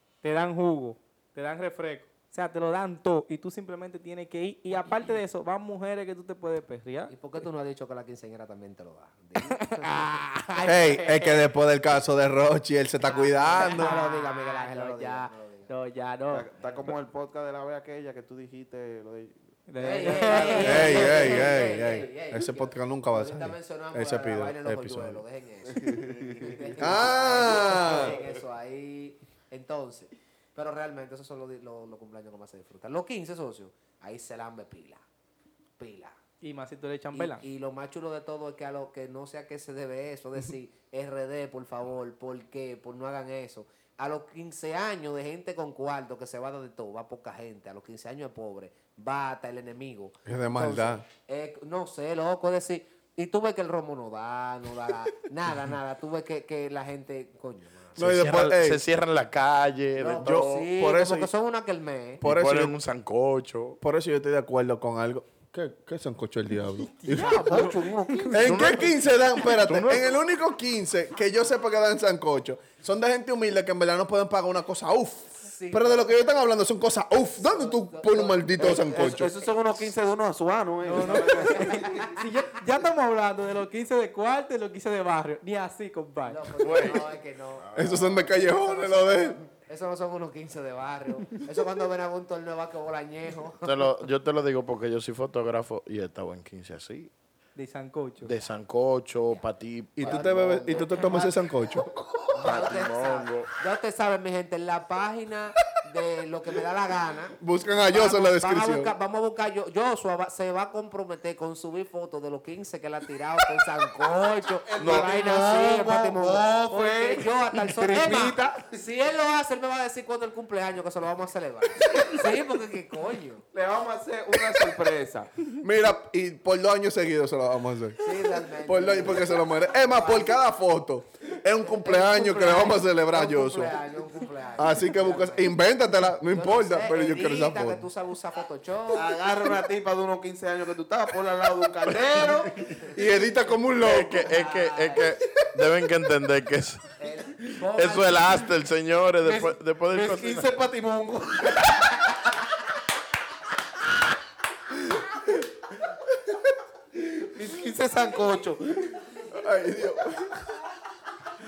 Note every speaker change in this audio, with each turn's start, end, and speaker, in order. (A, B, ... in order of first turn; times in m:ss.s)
0:00.2-0:07.1 A
0:07.1-0:11.0 B
0:09.5-0:11.4 A
0:10.6-0:13.9 C
0:13.0-0:15.7 B
0:13.6-0:16.5 A
0:16.3-0:19.4 D
0:16.6-0:16.9 B
0:19.7-0:21.6 A
0:19.8-0:35.0 B
0:20.2-0:20.7 D
0:20.6-0:25.2 C
0:25.7-0:26.9 D
0:26.8-0:28.2 C
0:35.8-0:36.2 B
0:36.4-0:37.4 A
0:37.1-0:58.3 B
0:50.2-0:51.0 C
0:58.0-0:58.8 C
0:58.0-1:00.7 E
1:00.0-1:02.2 B
1:00.2-1:01.3 C
1:02.2-1:02.8 C
1:02.2-1:03.8 E
1:03.8-1:07.7 C
1:07.0-1:08.5 A
1:07.1-1:08.7 D
1:08.3-1:19.3 C
1:08.3-1:10.1 E
1:15.4-1:16.1 B
1:17.4-1:19.2 B
1:18.6-1:22.2 D
1:20.8-1:26.5 A
1:21.0-1:22.2 B
1:26.2-1:33.7 B
1:26.6-1:27.1 E
1:27.7-1:28.0 E
1:27.7-1:29.4 C
1:33.6-1:37.1 E
1:37.6-1:38.3 A
1:38.2-1:41.1 E
1:40.0-1:41.9 C
1:40.0-1:41.4 B
1:42.3-1:47.4 B
1:42.3-1:43.5 E
1:47.4-1:48.9 C
1:47.9-2:03.4 B
1:54.6-1:58.8 D
1:54.8-1:55.1 E
2:03.5-2:05.3 D
2:05.6-2:13.8 C
2:08.0-2:10.4 B
2:11.6-2:15.6 B
2:14.6-2:17.8 C
2:16.2-2:19.1 B
2:18.9-2:23.0 D
2:22.8-2:24.3 C
2:23.8-2:26.9 E
2:24.2-2:25.2 B
2:27.0-2:28.5 B
2:27.7-2:30.6 E
2:29.2-2:32.5 D
2:37.0-2:39.1 D
2:39.3-2:40.6 C